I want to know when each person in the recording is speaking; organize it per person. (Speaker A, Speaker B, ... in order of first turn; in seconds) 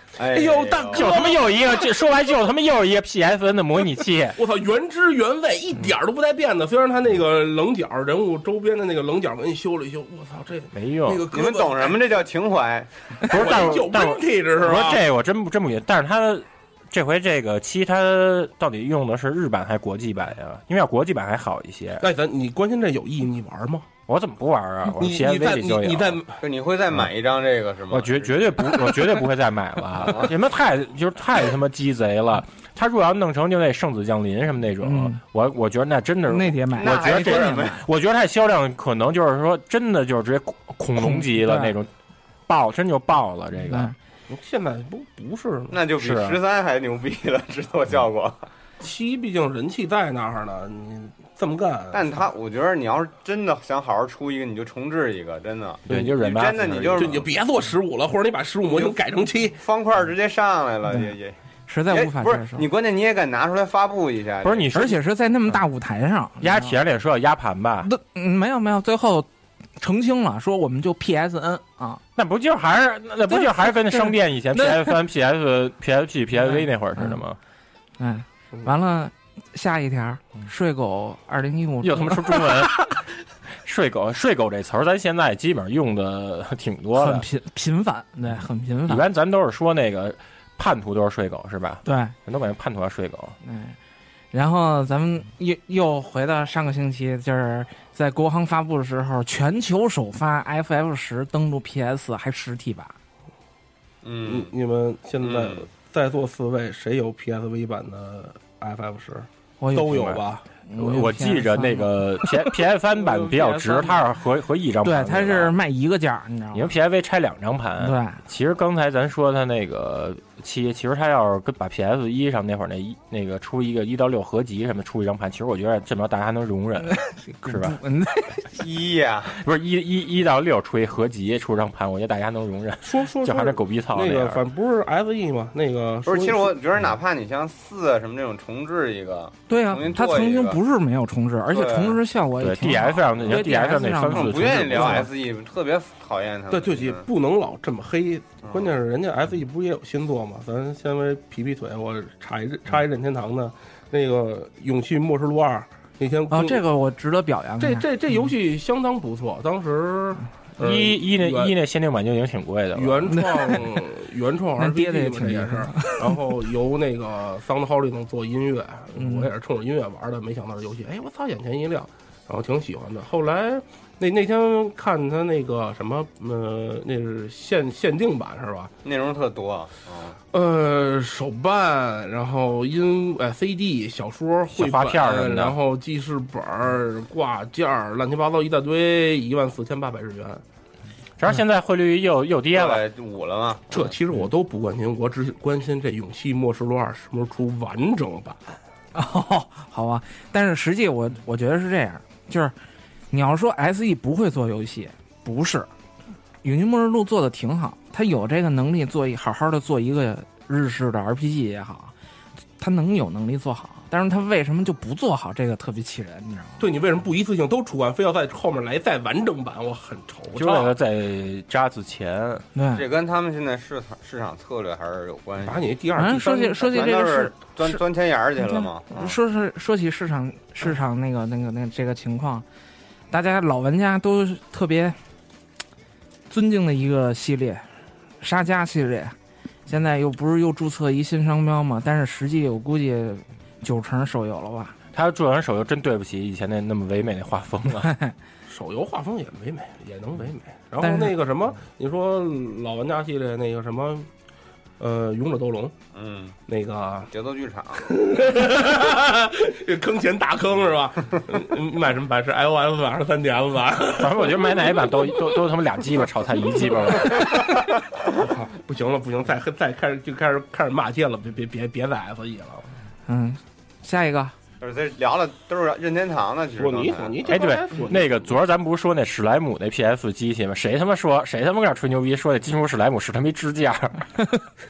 Speaker A: 0.2-1.1, 11.3-12.9, 26.4-28.6, 30.1-30.3, 36.8-37.8, 45.7-48.5, 51.9-57.3, 58.7-59.0, 59.6-61.4, 61.9-64.7, 104.0-104.5, 105.2-105.7, 128.6-129.4, 136.1-140.6, 141.5-142.0, 144.1-147.1, 148.4-148.8, 178.8-180.2, 192.5-193.9, 222.7-229.2, 255.9-256.4, 257.1-257.8, 274.6-277.5
Speaker B: 0.2-1.4, 4.4-12.1, 13.2-15.0, 22.0-23.9, 24.9-26.4, 44.3-45.8, 48.8-52.3, 57.0-59.6, 104.2-110.5, 132.8-136.6, 144.5-145.0, 146.5-156.6, 157.6-161.5, 162.7-178.7, 180.3-190.4, 193.7-198.4, 216.6-220.7, 225.4-226.6, 248.5-254.1, 254.8-255.8, 256.5-257.1, 257.8-264.9, 266.6-267.5, 268.1-272.7, 276.6-278.3
Speaker C: 0.9-4.4, 10.7-11.2, 13.3-22.1, 24.1-26.2, 27.9-41.9, 42.5-43.9, 46.0-46.4, 55.9-57.2, 64.4-65.0, 66.4-67.9, 72.2-77.4, 81.8-87.3, 88.9-93.4, 110.0-110.2, 110.8-115.6, 116.5-127.8, 129.3-134.4, 142.4-145.0, 160.6-163.2, 184.5-185.6, 191.2-192.9, 220.3-222.5, 244.9-247.9, 264.0-267.5, 277.3-284.1
Speaker D: 34.8-35.2, 36.3-37.8, 41.0-41.8, 43.7-44.0, 60.9-61.1, 61.7-62.7, 64.7-66.8, 67.8-69.3, 69.8-72.0, 73.3-75.0, 76.4-77.2, 78.0-82.9, 87.0-89.0, 91.8-92.2, 93.4-93.8, 94.3-103.0, 109.6-114.0, 114.8-116.7, 117.8-118.2, 126.9-128.6, 139.5-145.1, 156.3-157.9, 163.1-163.6, 164.6-166.0, 169.0-169.3, 198.9-202.5, 203.1-205.7, 206.4-211.9, 212.6-216.7, 222.6-222.8, 226.0-227.8, 228.4-232.5, 233.1-235.0, 236.3-237.7, 238.2-244.8, 247.8-248.1, 250.8-251.1, 273.1-274.4